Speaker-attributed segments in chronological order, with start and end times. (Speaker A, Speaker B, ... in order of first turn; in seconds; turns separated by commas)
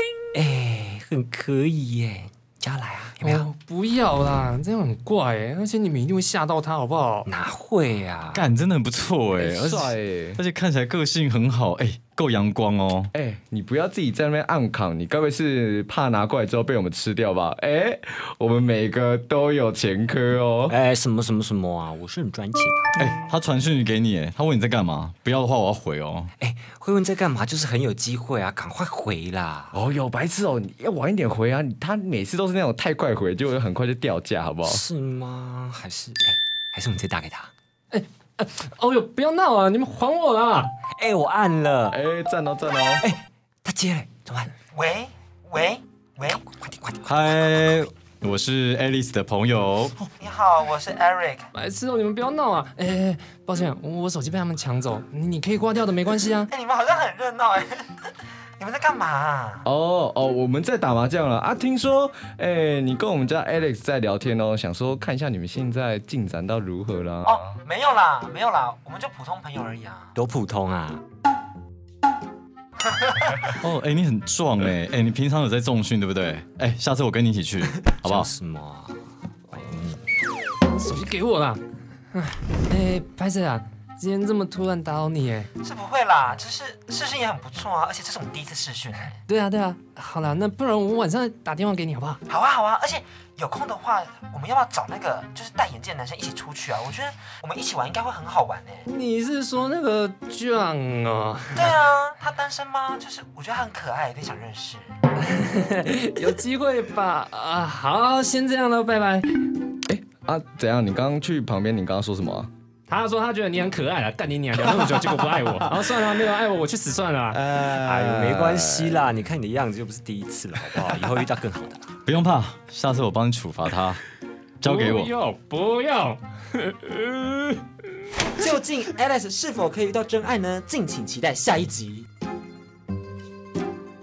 Speaker A: 0.3-3.5, Speaker B: 3.2-7.3, Speaker A: 7.3-8.4, Speaker C: 8.3-13.1, Speaker D: 9.4-10.4, Speaker D: 13.1-20.8, Speaker A: 20.7-23.1, Speaker C: 23.0-26.3, Speaker A: 26.4-29.8, Speaker D: 29.7-34.8, Speaker A: 34.6-37.5, Speaker B: 37.9-40.7, Speaker A: 41.0-42.0, Speaker D: 41.9-43.1, Speaker A: 43.0-44.5, Speaker E: 44.7-46.5, Speaker A: 46.5-47.8, Speaker C: 47.1-50.0, Speaker E: 50.1-51.5, Speaker B: 51.5-56.5, Speaker E: 56.5-59.7, Speaker D: 59.6-67.5, Speaker E: 67.2-70.2, Speaker A: 70.2-71.0, Speaker E: 72.8-73.6, Speaker C: 73.6-78.3, Speaker A: 77.8-80.0, Speaker B: 80.7-81.6, Speaker B: 82.1-85.5, Speaker E: 85.6-89.2, Speaker B: 89.3-92.2, Speaker E: 92.3-98.9, Speaker B: 98.9-101.8, Speaker E: 101.5-105.0, Speaker B: 105.2-109.5, Speaker D: 109.9-112.5, Speaker B: 112.9-117.4, Speaker D: 114.6-116.0, Speaker D: 117.3-119.1, Speaker A: 117.7-122.0, Speaker C: 122.1-124.0, Speaker C: 124.6-125.1, Speaker B: 124.6-127.6, Speaker E: 128.3-132.1